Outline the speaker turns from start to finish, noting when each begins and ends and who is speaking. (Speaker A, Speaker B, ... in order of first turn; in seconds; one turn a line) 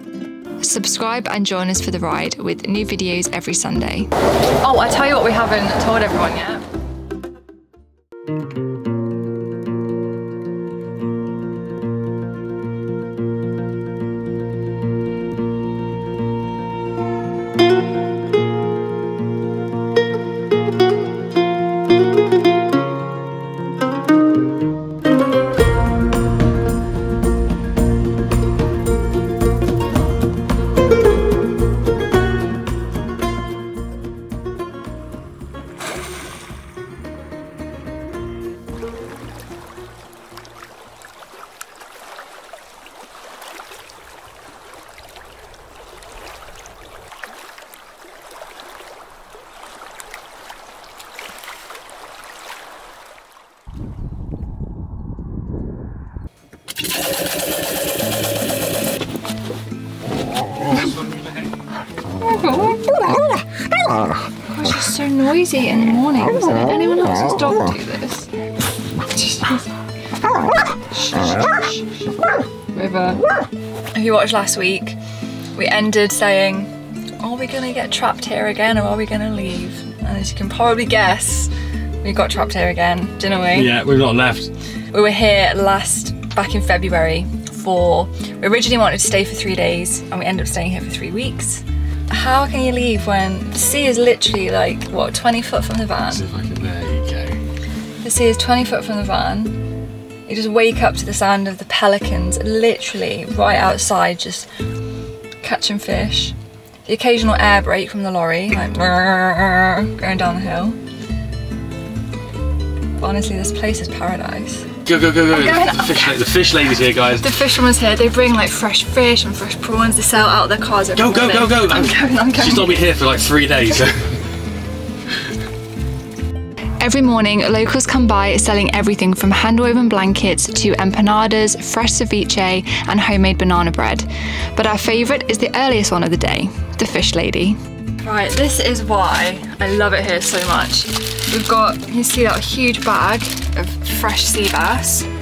Speaker A: 0.6-4.1
Speaker A: 4.6-6.6
Speaker A: 62.2-62.8
Speaker A: 64.5-68.3
Speaker A: 69.1-69.7
Speaker A: 70.9-72.0
Speaker A: 72.7-73.2
Speaker A: 74.0-75.0
Speaker A: 75.5-83.7
Speaker B: 83.5-84.5
Speaker A: 84.9-96.2
Speaker B: 96.1-97.4
Speaker A: 98.0-99.6
Speaker A: 100.3-104.5
Speaker A: 105.4-106.3
Speaker A: 106.9-110.8
Speaker A: 113.0-114.7
Speaker B: 114.9-117.3
Speaker A: 115.3-116.2
Speaker A: 117.2-122.8
Speaker B: 121.0-124.2
Speaker A: 126.8-145.1